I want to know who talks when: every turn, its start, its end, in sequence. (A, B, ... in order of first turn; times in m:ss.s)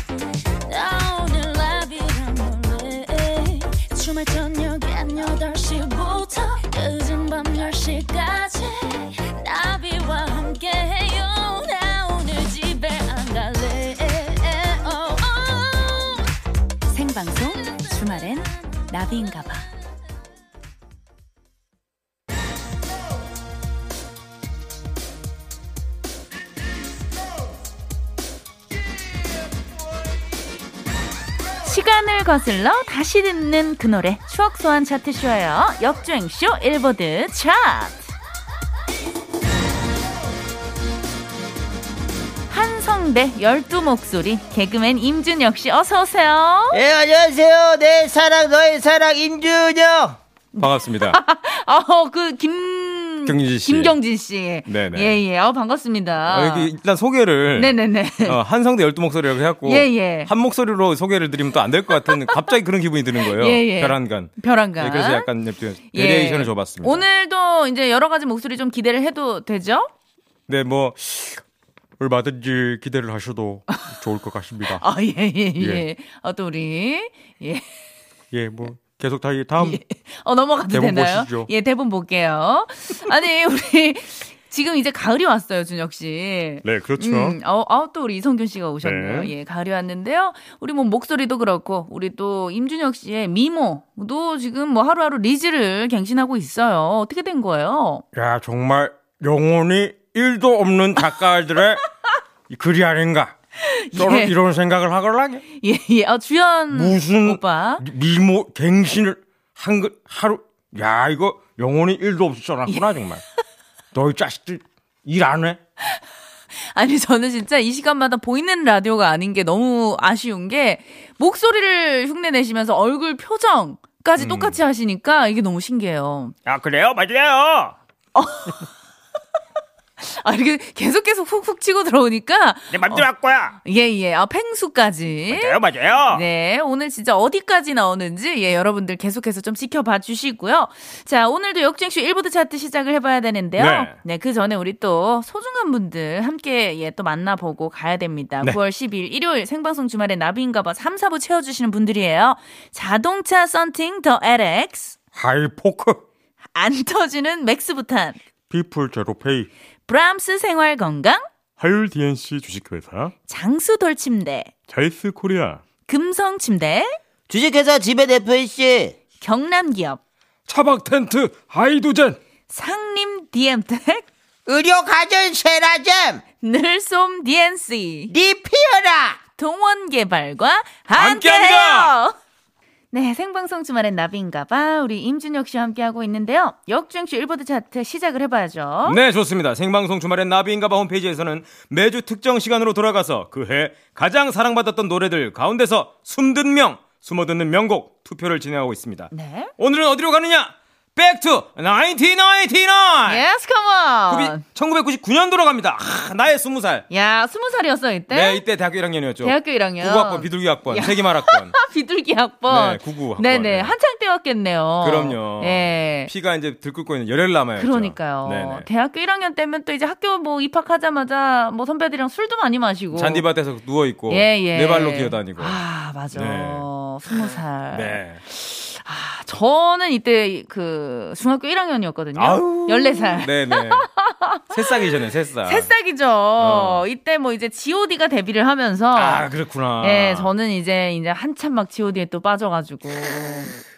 0:00.6-0:16.3 A
0:16.9-0:19.7 A
0:31.6-0:38.1 A
0:42.5-0:46.8 A
0:46.7-0:50.2 B
0:50.5-0:56.7 A
0:50.6-0:51.2 C
0:53.2-0:53.9 C
0:54.7-0:55.2 C
0:56.3-1:07.0 C
0:57.5-0:58.4 A
0:59.6-1:00.3 A
1:02.1-1:02.5 A
1:03.2-1:05.3 A
1:05.9-1:09.9 A
1:10.5-1:11.4 C
1:12.0-1:14.8 C
1:14.7-1:17.6 A
1:15.6-1:15.8 C
1:18.3-1:19.8 C
1:19.6-1:38.0 A
1:20.7-1:21.5 C
1:26.6-1:27.4 C
1:28.8-1:29.3 C
1:38.1-1:41.8 C
1:42.5-1:43.3 C
1:43.6-1:44.3 A
1:43.9-1:45.4 C
1:45.5-1:47.8 A
1:46.7-1:53.2 C
1:53.9-1:55.6 C
1:56.6-2:06.3 A
2:04.2-2:04.6 C
2:06.4-2:07.8 C
2:08.1-2:08.6 A
2:10.0-2:13.1 A
2:12.7-2:13.6 C
2:13.6-2:35.0 A
2:15.3-2:16.2 C
2:23.6-2:24.0 C
2:35.1-2:36.0 C
2:36.5-2:38.2 A
2:38.5-2:39.5 C
2:39.9-2:41.2 A
2:41.6-2:43.1 C
2:43.3-2:44.5 A
2:44.7-2:45.6 C
2:45.9-2:47.0 A
2:47.3-2:49.0 B
2:49.2-2:50.0 A
2:50.5-2:52.2 C
2:52.5-2:54.0 A
2:54.4-2:56.2 B
2:56.4-2:58.1 A
2:58.1-2:59.2 B
2:59.4-3:02.1 A
3:00.9-3:02.0 C
3:02.9-3:09.0 A
3:08.8-3:23.3 C
3:19.1-3:19.5 A
3:23.1-3:24.4 A
3:24.1-3:26.8 C
3:26.9-3:28.4 A
3:28.1-3:31.6 C
3:29.2-3:36.1 A
3:32.5-3:33.8 C
3:34.8-3:38.7 C
3:37.6-3:43.2 A
3:42.9-3:45.6 C
3:44.1-3:54.5 A
3:46.1-3:46.6 C
3:47.3-3:48.2 C
3:52.2-3:53.9 C
3:54.5-3:55.7 C
3:55.4-3:59.2 A
3:56.4-3:56.8 C
3:58.9-4:00.3 C
3:59.8-4:03.5 A